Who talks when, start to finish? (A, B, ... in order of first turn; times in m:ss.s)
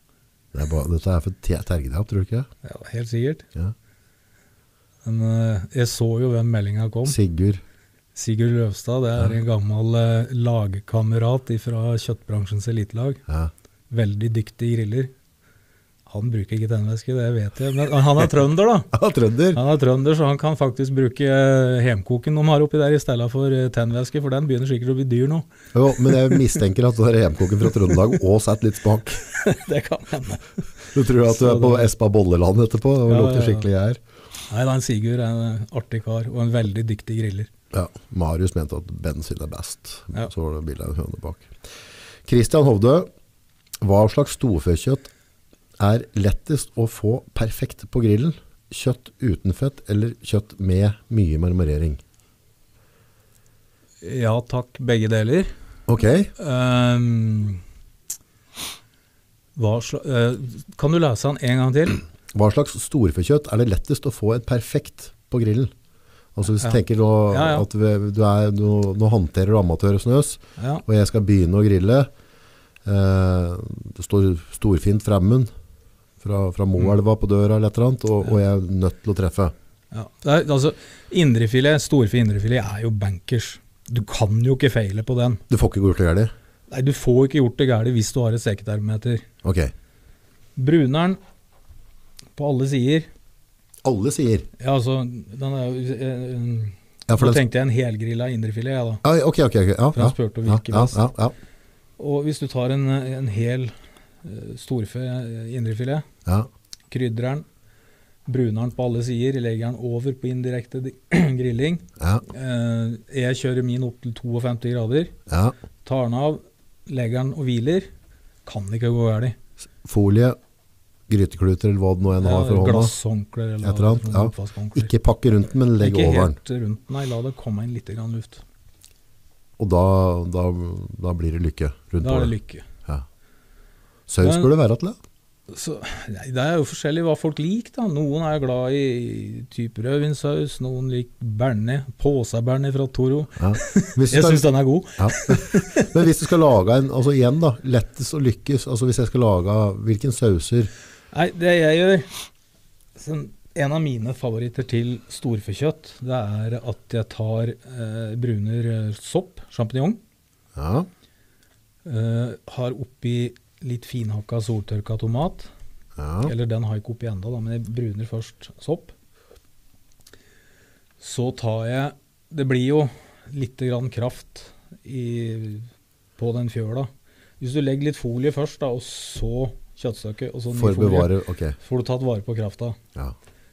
0:00.5-0:02.5 A
0:02.6-0:03.5 B
0:05.0-0:07.2 B
0:07.0-0:07.6 A
0:08.1-0:13.2 B
0:13.9-0:15.1 B
0:16.1-0:18.9 B
0:18.9-0:19.6 A
0:19.5-0:26.6 B
0:25.7-0:29.2 A
0:29.3-0:31.9 B
0:30.9-0:34.0 A
0:33.0-0:33.7 B
0:34.5-0:37.5 B
0:37.7-0:41.5 A
0:42.2-0:43.1 A
0:43.8-0:45.1 A
0:45.8-0:52.0 A
0:54.0-0:55.5 B
0:55.9-0:56.3 A
0:56.4-0:57.6 B
0:59.6-1:02.0 B
1:02.3-1:05.7 A
1:06.3-1:12.1 A
1:06.5-1:07.7 B
1:10.6-1:10.8 B
1:12.8-1:15.5 A
1:16.2-1:19.5 A
1:19.9-1:25.4 B
1:25.5-1:26.3 A
1:26.7-1:29.2 B
1:29.4-1:29.7 A
1:30.6-1:31.2 B
1:32.4-1:33.1 B
1:33.8-1:34.5 A
1:34.6-1:39.0 B
1:37.1-1:37.4 A
1:39.0-1:41.4 A
1:39.9-1:41.1 B
1:42.0-1:46.0 B
1:46.9-1:47.4 B
1:48.2-1:55.2 B
1:52.0-1:52.2 A
1:55.3-1:55.5 A
1:55.8-1:57.9 B
1:58.4-1:59.4 B
1:59.8-2:00.4 A
2:01.1-2:02.9 A
2:02.2-2:04.9 B
2:03.6-2:06.4 A
2:05.8-2:08.4 B
2:09.6-2:12.3 A
2:12.0-2:12.7 B
2:14.1-2:15.0 A
2:14.2-2:14.5 B
2:15.5-2:26.0 B
2:23.4-2:30.7 A
2:31.1-2:32.2 B
2:33.0-2:40.0 B
2:40.5-2:40.9 A
2:41.8-2:45.5 B
2:46.0-2:46.3 A
2:46.2-2:48.9 B
2:51.0-3:02.8 B
3:00.5-3:01.6 A